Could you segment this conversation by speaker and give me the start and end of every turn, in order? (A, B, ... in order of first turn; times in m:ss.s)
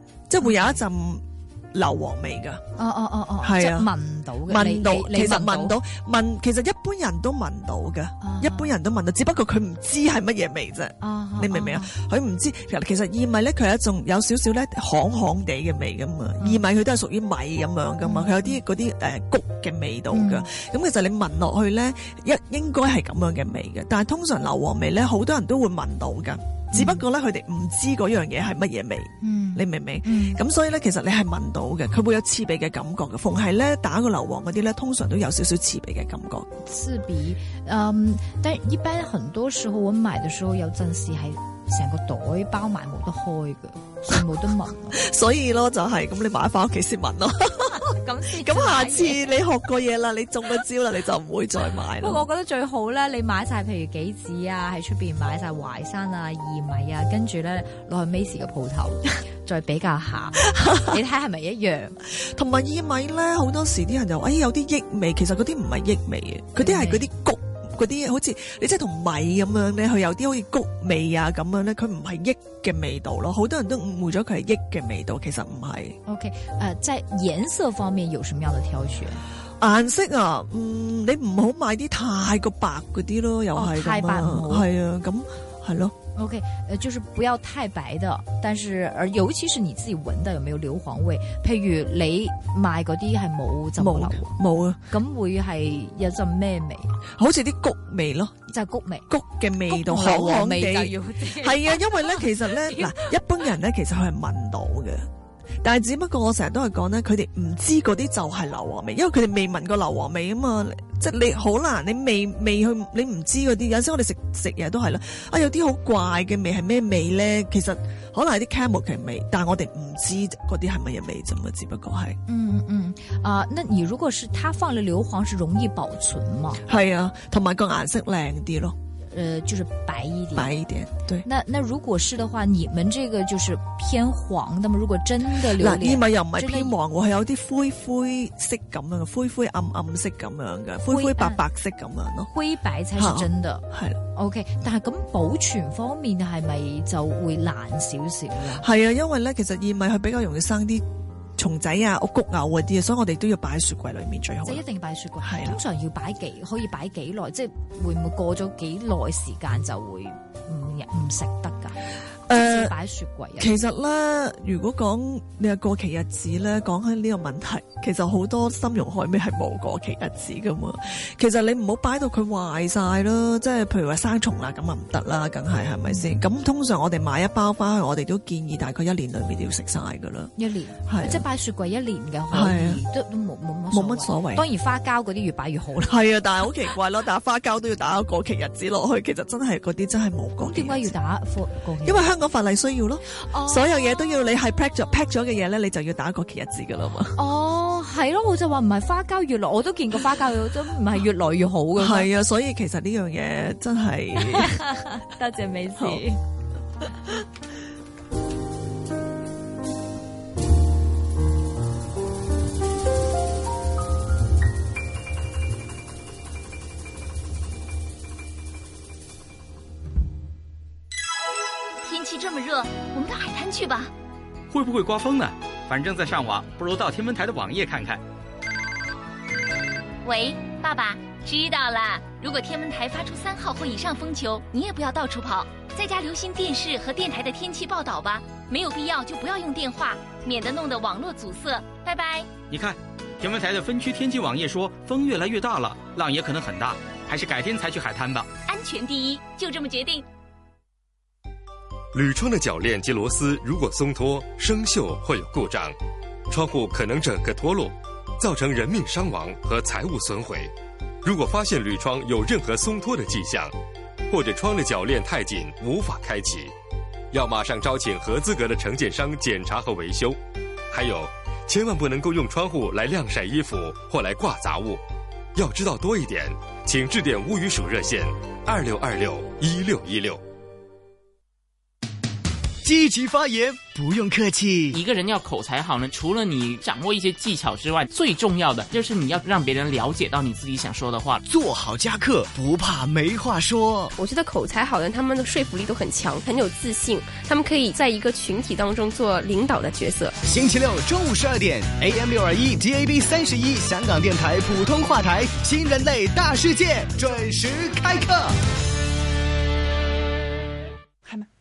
0:00.3-0:02.6 A
0:00.4-0:00.8 B
0:02.8-0:05.8 B
0:03.4-0:03.9 A
0:04.5-0:36.5 A
0:08.2-0:08.7 B
0:11.0-0:11.9 B
0:18.0-0:18.6 B
0:20.1-0:20.5 B
0:26.7-0:27.0 B
0:29.2-0:30.4 B
0:36.6-0:45.0 B
0:44.9-0:52.2 A
0:47.7-0:49.2 B
0:52.0-1:02.0 B
1:00.5-1:01.0 A
1:02.2-1:16.0 A
1:06.6-1:07.1 B
1:16.1-1:19.2 B
1:19.6-1:25.9 A
1:23.5-1:24.7 B
1:26.2-1:34.3 B
1:33.8-1:34.8 A
1:34.9-1:37.0 B
1:37.2-1:38.4 A
1:38.5-1:39.1 B
1:39.1-1:45.0 A
1:39.7-1:43.0 B
1:45.6-2:02.2 A
2:02.3-2:06.6 B
2:06.6-2:08.8 A
2:09.1-2:10.5 B
2:10.4-2:11.3 A
2:11.2-2:16.7 B
2:15.5-2:22.3 A
2:20.9-2:21.4 B
2:22.3-2:28.6 B
2:23.0-2:24.0 A
2:28.6-2:30.8 A
2:31.4-2:34.6 A
2:34.4-2:43.6 B
2:35.2-2:35.6 A
2:42.3-2:42.7 A
2:43.4-3:00.3 A
3:00.4-3:06.0 B
3:00.9-3:01.2 A
3:02.3-3:02.8 A
3:03.7-3:04.4 A
3:05.9-3:10.9 A
3:10.5-3:12.1 B
3:11.8-3:17.2 A
3:13.2-3:13.6 B
3:17.2-3:22.1 B
3:21.8-3:24.5 A
3:24.3-3:26.2 B
3:41.8-3:43.9 C
3:44.5-3:48.0 D
3:50.0-4:02.3 C
4:02.5-4:08.3 D
4:08.4-4:10.0 C
4:11.9-4:15.8 E
4:16.3-4:20.5 E
4:21.0-4:23.5 E
4:24.1-4:26.5 E
4:27.1-4:30.2 E
4:30.7-4:34.8 E
4:35.4-4:40.2 E
4:42.6-4:44.8 F
4:44.7-4:51.2 G
4:51.3-4:53.9 F
4:54.0-5:00.1 H
5:00.2-5:08.3 F